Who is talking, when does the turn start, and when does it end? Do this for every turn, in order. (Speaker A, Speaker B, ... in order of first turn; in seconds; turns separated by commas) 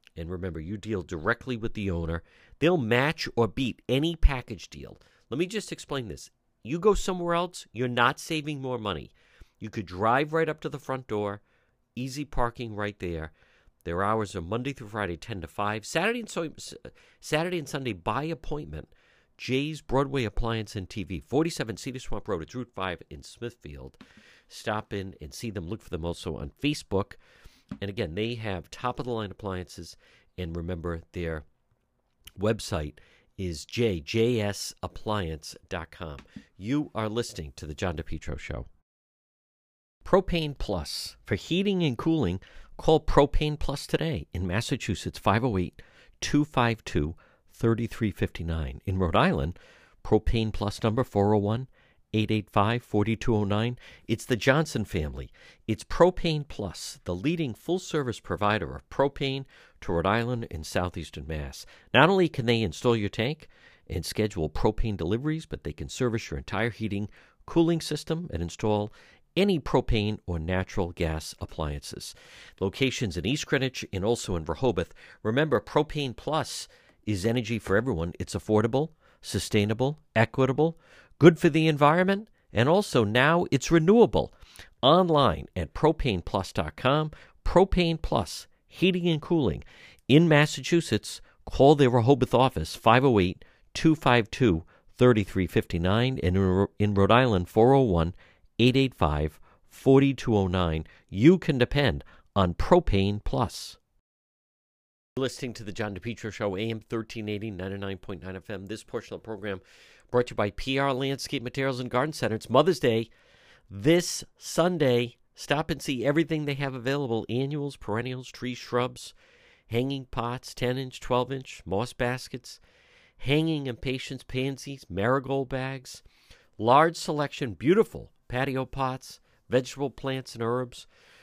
Speaker A: 0.2-11.4, Speaker A: 11.9-24.0, Speaker A: 24.5-27.2, Speaker A: 27.8-31.4, Speaker A: 32.4-38.7, Speaker A: 40.0-103.8, Speaker A: 105.2-113.1, Speaker A: 113.7-119.1, Speaker A: 119.7-122.6, Speaker A: 123.2-126.0, Speaker A: 126.6-130.9